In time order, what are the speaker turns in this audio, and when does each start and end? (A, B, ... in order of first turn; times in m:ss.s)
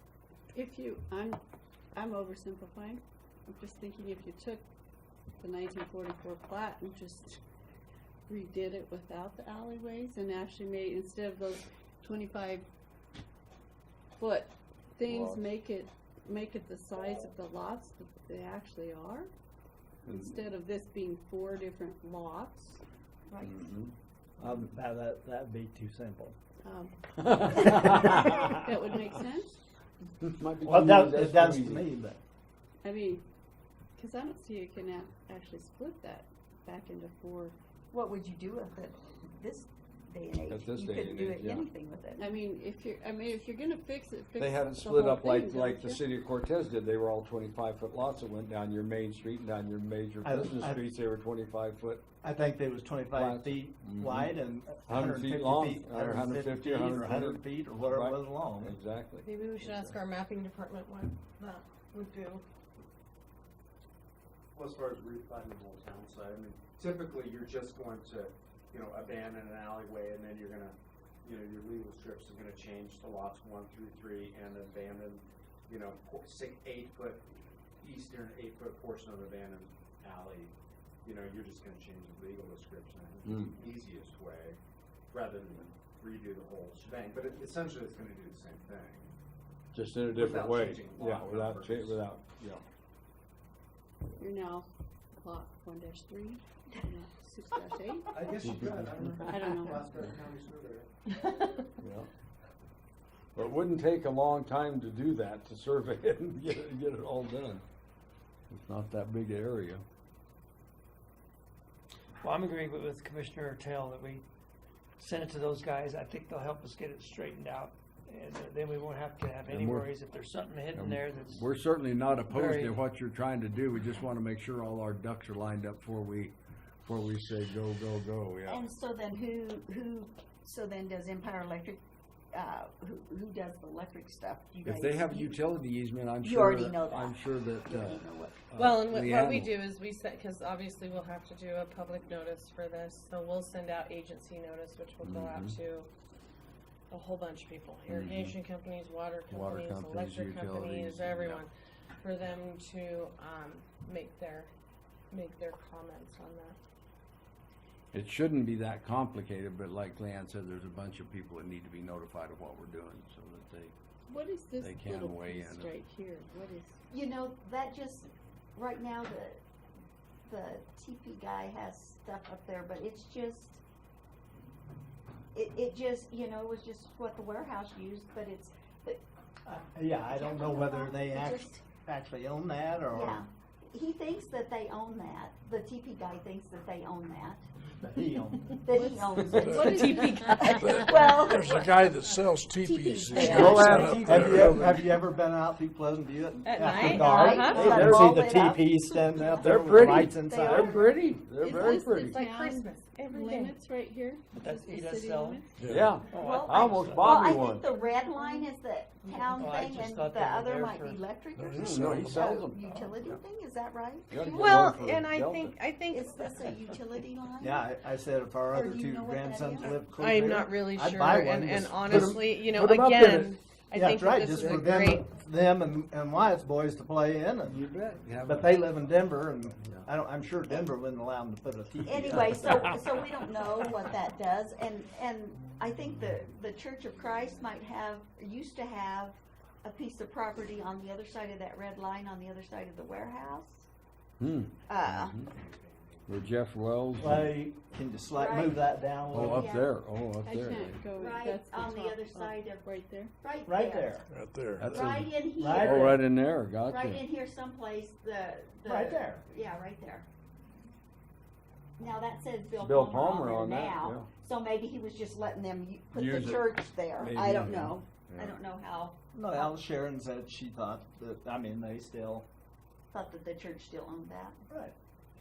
0:00.5-0:01.4 A
0:01.9-0:04.6 A
0:05.4-0:07.4 A
0:08.3-0:12.6 A
0:14.2-0:19.3 A
0:15.1-0:15.4 B
0:20.0-0:22.8 A
0:20.0-0:20.3 B
0:23.3-0:23.6 C
0:23.4-0:23.9 B
0:24.4-0:26.4 D
0:26.6-0:29.6 A
0:27.2-0:28.6 B
0:30.2-0:31.9 B
0:30.6-0:32.2 D
0:32.8-0:33.2 A
0:34.0-0:37.5 A
0:37.9-0:42.4 C
0:40.5-0:41.7 B
0:42.2-0:46.0 A
0:44.4-0:52.0 B
0:50.2-0:50.9 D
0:52.2-0:58.7 D
0:53.1-0:54.3 B
0:54.9-1:00.0 B
0:59.2-1:02.4 E
1:04.5-1:17.2 F
1:17.8-1:20.5 F
1:21.0-1:24.6 F
1:23.2-1:23.6 B
1:25.1-1:29.1 F
1:29.7-1:32.6 B
1:30.0-1:32.0 F
1:34.2-1:34.7 A
1:35.2-1:38.4 A
1:38.1-1:40.9 F
1:38.4-1:39.4 B
1:39.3-1:40.1 A
1:41.8-1:42.1 B
1:43.3-1:47.6 B
1:48.5-1:49.8 B
1:52.2-1:54.2 G
1:55.0-2:01.4 G
1:59.5-1:59.9 B
2:00.7-2:08.6 B
2:02.3-2:02.8 G
2:08.4-2:11.8 C
2:12.3-2:15.4 C
2:14.6-2:19.6 B
2:16.2-2:18.4 C
2:18.6-2:25.9 E
2:25.0-2:25.6 B
2:26.9-2:34.5 E
2:27.9-2:28.4 B
2:29.3-2:31.4 B
2:35.1-2:36.6 E
2:37.9-2:43.7 B
2:44.1-2:46.8 A
2:44.6-2:45.7 B
2:46.9-2:49.4 C
2:50.2-2:53.6 C
2:55.3-2:59.0 C
2:59.4-3:03.2 D
3:00.3-3:01.6 C
3:02.9-3:07.4 C
3:07.8-3:08.6 D
3:08.4-3:13.9 C
3:08.7-3:10.7 A
3:09.6-3:11.0 E
3:10.6-3:14.5 H
3:13.2-3:14.8 B
3:13.8-3:20.9 D
3:16.4-3:17.7 E
3:16.7-3:21.0 C
3:17.5-3:18.1 B
3:19.4-3:22.2 B
3:21.4-3:25.6 A
3:21.9-3:23.6 E
3:24.3-3:25.4 G
3:25.6-3:25.9 H
3:25.6-3:27.7 B
3:26.0-3:27.5 G
3:26.1-3:34.4 C
3:27.9-3:28.5 A
3:29.0-3:31.0 G
3:31.4-3:32.4 H
3:31.6-3:33.2 B
3:34.1-3:35.7 B
3:34.3-3:36.5 E
3:35.9-3:37.7 C
3:37.4-3:47.6 D
3:38.5-3:39.7 C
3:39.6-3:45.0 E
3:41.9-3:42.1 B
3:42.8-3:43.2 B
3:44.3-3:44.9 B
3:47.4-3:49.0 B
3:48.2-3:52.7 D
3:49.6-3:49.9 B
3:51.8-4:03.7 C
3:52.4-3:53.0 B
3:56.9-3:57.4 F
4:04.2-4:05.3 B
4:04.7-4:05.1 C
4:05.2-4:06.3 F
4:06.1-4:07.3 B
4:07.0-4:09.5 D
4:08.1-4:08.7 C
4:09.1-4:10.8 B
4:09.2-4:09.7 C
4:10.2-4:13.1 A
4:10.9-4:12.7 C
4:13.2-4:14.0 C
4:13.4-4:14.0 D
4:14.1-4:14.7 H
4:14.6-4:17.0 B
4:14.6-4:16.0 C
4:15.3-4:16.0 D
4:16.6-4:20.0 C
4:18.6-4:19.2 D
4:21.8-4:29.6 C
4:22.6-4:24.1 B
4:25.9-4:28.4 B
4:29.1-4:32.3 D
4:32.9-4:34.4 C
4:34.5-4:34.7 D